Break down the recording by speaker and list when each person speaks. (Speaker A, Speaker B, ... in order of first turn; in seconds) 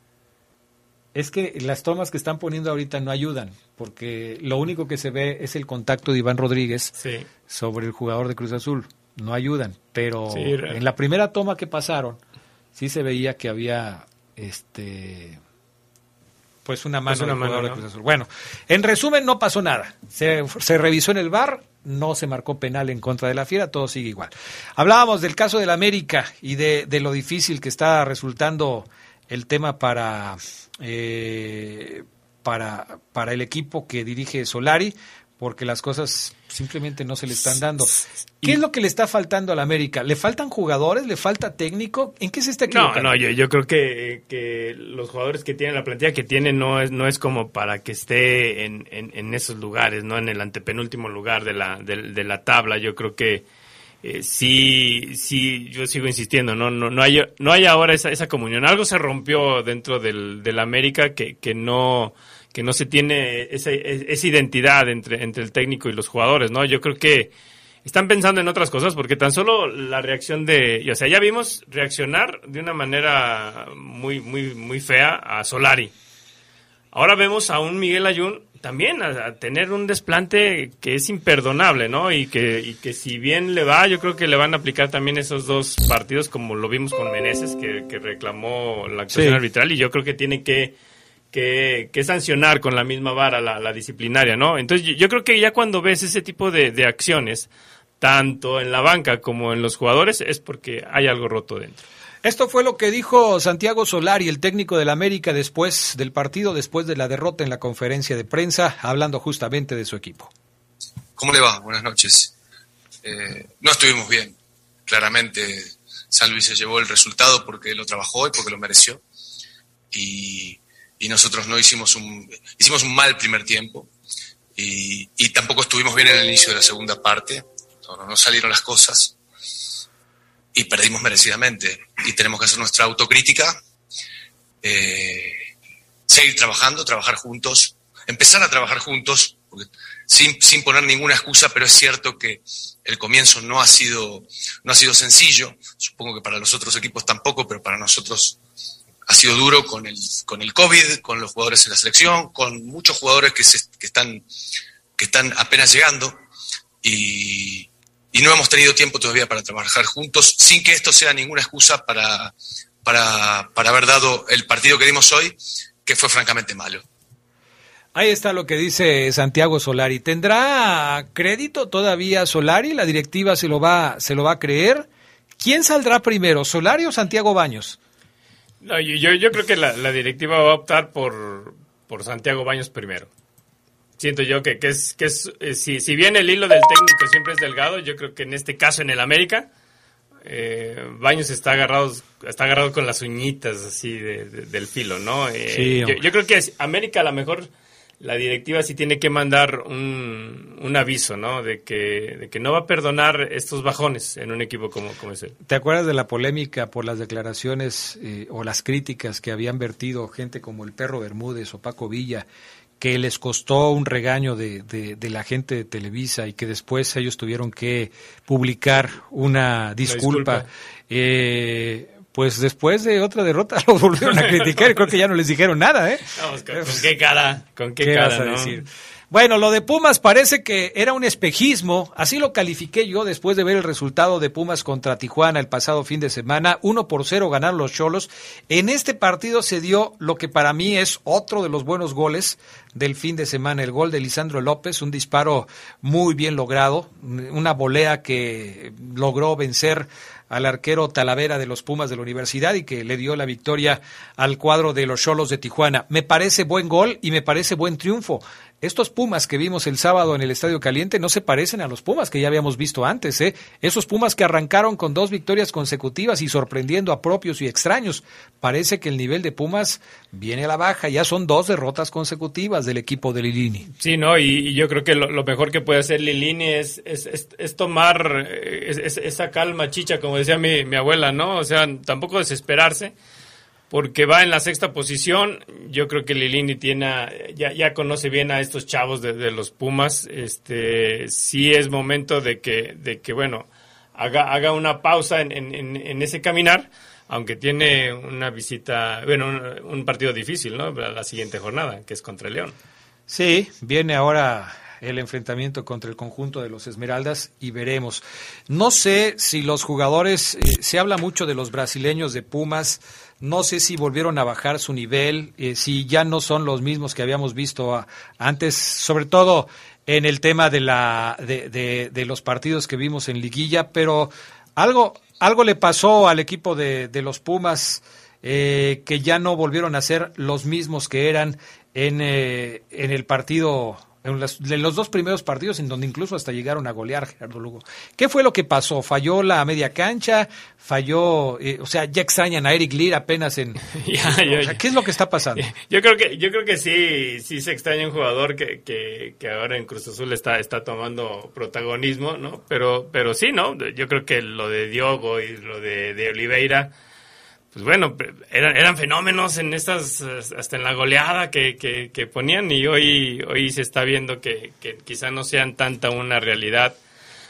Speaker A: 1.1-6.9, 7.5-12.2, 12.8-15.4, 16.6-43.1, 89.1-89.4, 102.2-110.3, 167.9-174.9, 175.4-177.8, 195.5-196.0, 205.4-212.3, 212.8-226.9, 227.8-273.7, 303.1-345.4
Speaker B: 7.0-7.3, 10.3-10.8, 17.1-17.8, 42.7-53.4, 54.0-67.3, 67.8-75.9, 76.9-90.7, 91.3-97.5, 98.0-101.8, 178.6-183.1, 184.0-189.5, 190.2-197.5, 198.0-205.3, 219.8-220.4, 224.0-224.8, 226.2-228.6, 273.8-282.9, 283.7-302.5, 343.8-344.6, 345.4-356.7, 357.5-366.8
Speaker C: 111.2-112.3, 113.0-114.3, 114.9-119.0, 119.9-123.9, 124.5-129.1, 130.5-133.6, 134.6-135.4, 136.1-148.4, 149.1-154.2, 155.0-156.2, 156.8-162.3, 162.8-166.8